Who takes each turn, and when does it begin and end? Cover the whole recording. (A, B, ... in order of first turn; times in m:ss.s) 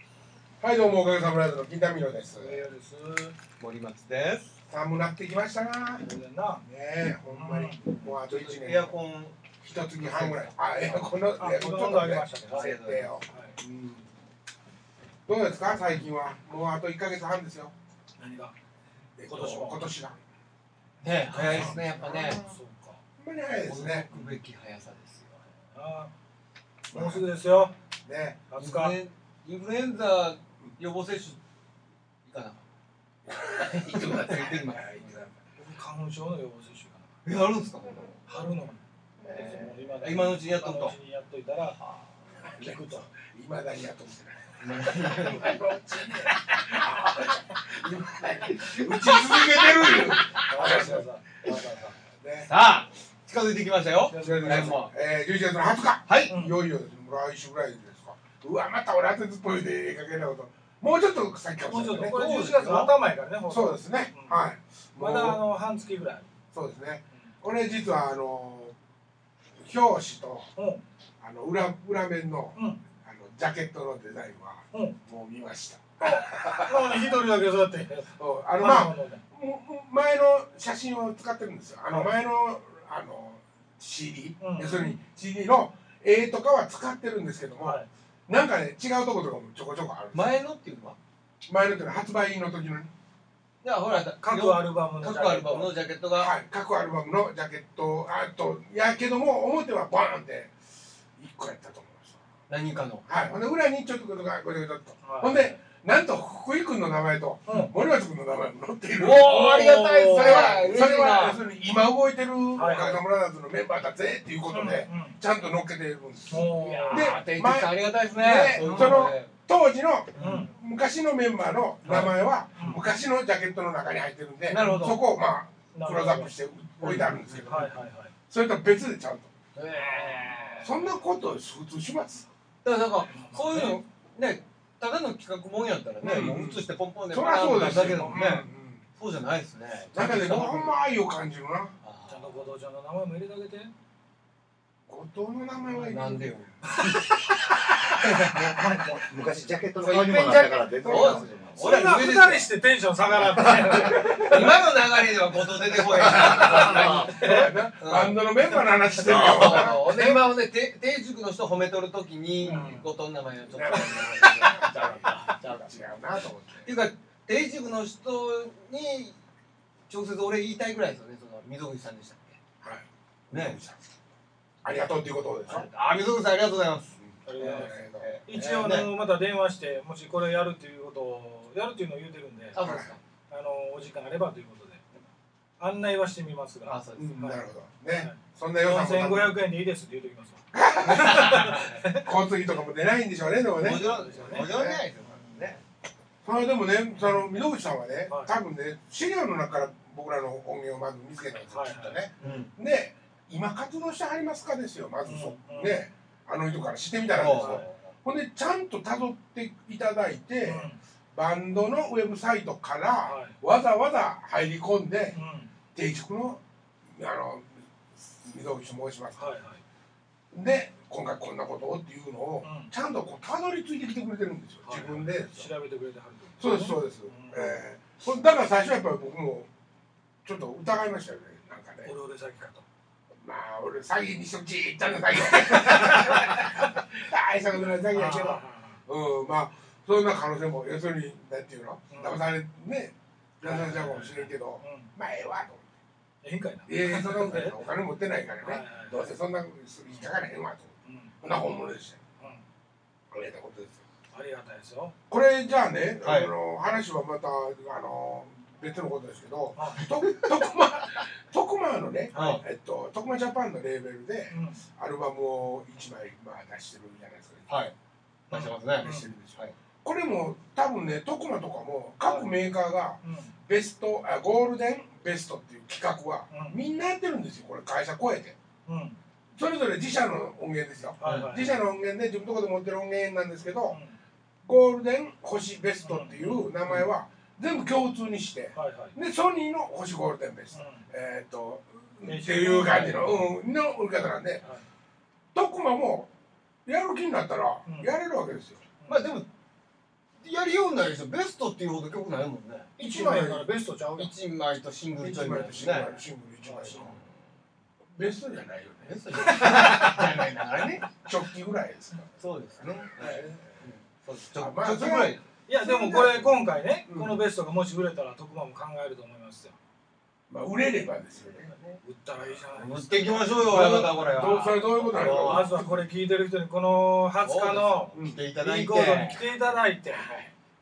0:00.6-0:02.6 A
0:02.3-0:03.4 B
0:03.6-0:04.5 C
0:04.7-0:06.0 A
0:06.0-0:06.6 B
0:06.7-0:08.9 A
0:07.3-0:07.8 B
0:07.8-0:11.2 C
0:09.6-0:14.0 A
0:11.4-0:12.7 B
0:11.7-0:13.1 C
0:13.3-0:13.6 B
0:15.3-0:17.7 A
0:18.2-0:18.5 B
0:19.2-0:20.2 A
0:19.2-0:19.8 B
0:21.0-0:22.4 C
0:21.3-0:23.0 B
0:21.4-0:22.5 A
0:23.2-0:24.1 A
0:23.6-0:25.4 C
0:25.7-0:26.1 B
0:26.9-0:27.2 A
0:26.9-0:27.7 B
0:28.0-0:28.4 A
0:28.5-0:29.0 B
0:28.6-0:31.4 C
0:32.3-0:32.6 C
0:33.3-0:35.3 A
0:33.6-0:35.2 C
0:35.6-0:37.1 B
0:37.2-0:38.2 C
0:38.3-0:41.8 B
0:39.4-0:41.0 C
0:42.6-0:43.1 B
0:42.6-0:51.5 A
0:44.6-0:45.6 C
0:48.5-0:50.4 C
0:50.4-0:52.0 B
0:52.1-0:52.5 A
0:52.5-0:54.9 C
0:54.0-0:54.8 B
0:54.2-1:02.2 A
0:56.1-0:56.4 C
0:56.3-0:56.6 B
1:01.7-1:04.4 B
1:02.0-1:02.9 C
1:03.5-1:05.4 A
1:05.0-1:06.3 B
1:06.5-1:08.7 A
1:09.6-1:10.5 A
1:10.6-1:10.8 B
1:11.2-1:17.1 A
1:12.6-1:12.8 B
1:16.0-1:19.2 B
1:18.2-1:30.3 A
1:24.4-1:25.0 B
1:27.6-1:27.9 B
1:30.1-1:31.0 C
1:31.5-1:32.9 A
1:33.6-1:36.3 C
1:34.2-1:35.7 B
1:36.2-1:40.5 A
1:41.2-1:42.2 A
1:42.5-1:43.1 C
1:43.1-2:07.7 A
1:45.0-1:45.5 B
1:49.0-1:51.4 C
1:52.6-1:53.0 B
1:54.5-1:55.2 B
1:56.3-1:57.2 B
1:56.3-1:59.3 C
1:58.6-1:59.1 B
2:00.2-2:00.5 C
2:00.2-2:00.5 B
2:01.8-2:02.1 C
2:02.6-2:02.8 B
2:04.5-2:05.0 C
2:04.6-2:04.9 B
2:05.7-2:06.3 B
2:06.8-2:07.3 C
2:07.4-2:08.1 B
2:08.3-2:09.3 A
2:09.6-2:10.8 C
2:09.7-2:10.7 B
2:10.6-2:12.2 A
2:12.6-2:18.5 C
2:13.1-2:13.8 B
2:16.0-2:18.8 A
2:17.7-2:18.2 B
2:19.0-2:20.7 C
2:19.9-2:21.7 A
2:21.8-2:22.4 C
2:22.1-2:23.7 B
2:24.9-2:26.4 A
2:25.7-2:27.0 C
2:26.7-2:27.1 B
2:28.0-2:28.6 C
2:28.2-2:31.6 D
2:29.8-2:32.5 C
2:30.8-2:32.0 A
2:31.6-2:34.5 B
2:33.9-2:37.3 C
2:36.2-2:40.0 A
2:36.2-2:37.6 B
2:37.8-2:38.2 C
2:38.8-2:40.2 B
2:39.0-2:45.7 C
2:42.4-2:42.8 A
2:42.4-2:42.8 B
2:43.5-2:46.7 A
2:46.6-2:49.2 C
2:49.9-2:52.4 C
2:52.6-2:53.8 A
2:53.3-2:53.6 C
2:54.6-2:55.7 A
2:55.5-2:58.9 C
2:57.0-2:58.6 A
2:57.2-2:57.8 B
2:58.3-3:02.6 B
3:02.5-3:03.0 C
3:02.6-3:02.9 A
3:03.3-3:05.0 B
3:05.6-3:07.4 B
3:06.7-3:07.2 C
3:07.0-3:09.3 A
3:08.0-3:12.1 B
3:10.5-3:14.8 A
3:10.9-3:11.8 C
3:13.6-3:15.6 C
3:13.7-3:14.5 B
3:16.2-3:35.2 A
3:18.1-3:18.3 B
3:21.5-3:22.4 B
3:22.2-3:22.5 C
3:25.0-3:25.8 B
3:27.1-3:27.7 C
3:27.3-3:27.7 B
3:30.5-3:30.8 B
3:33.0-3:33.4 B
3:35.1-3:35.5 B
3:35.8-3:39.3 A
3:39.2-3:39.6 B
3:40.3-3:45.5 A
3:42.4-3:42.7 B
3:44.7-3:47.6 B
3:46.4-3:49.5 A
3:50.2-3:51.9 A
3:51.8-3:52.6 B
3:53.2-4:05.6 A
3:57.9-3:58.8 B
4:01.9-4:02.2 B
4:03.4-4:04.9 B
4:06.2-4:07.6 B
4:06.7-4:10.7 A
4:08.4-4:09.1 B
4:10.8-4:11.1 B
4:11.2-4:12.0 A
4:13.1-4:13.8 A
4:14.1-4:15.0 B
4:15.1-4:27.6 A
4:16.0-4:16.3 C
4:19.6-4:19.9 B
4:22.1-4:22.4 B
4:22.1-4:22.4 C
4:24.3-4:24.6 B
4:27.5-4:27.7 C
4:28.3-4:29.1 B
4:28.3-4:29.6 C
4:28.8-4:38.4 A
4:32.0-4:32.3 B
4:33.0-4:33.3 B
4:36.3-4:36.6 B
4:38.7-4:39.0 B
4:39.4-4:43.8 A
4:41.0-4:41.6 B
4:41.0-4:41.3 C
4:43.7-4:44.0 B
4:44.4-4:54.4 A
4:45.8-4:46.5 B
4:48.5-4:48.9 B
4:50.5-4:50.9 B
4:52.0-4:53.3 B
4:55.4-4:56.1 A
4:56.7-4:58.7 A
4:57.7-4:57.9 B
4:58.8-4:59.1 B
4:58.9-4:59.2 C
5:00.2-5:02.7 C
5:02.8-5:03.5 A
5:02.8-5:04.1 B
5:04.0-5:06.0 C
5:05.0-5:07.0 A
5:06.4-5:06.9 B
5:08.0-5:09.8 A
5:08.8-5:10.9 C
5:09.2-5:10.1 B
5:11.0-5:13.6 A
5:12.2-5:15.2 C
5:14.4-5:16.3 A
5:15.5-5:19.6 B
5:16.9-5:17.2 A
5:20.3-5:21.6 A
5:21.7-5:30.1 B
5:22.5-5:25.6 C
5:23.4-5:25.8 A
5:27.2-5:29.4 C
5:27.9-5:28.2 A
5:29.9-5:30.3 A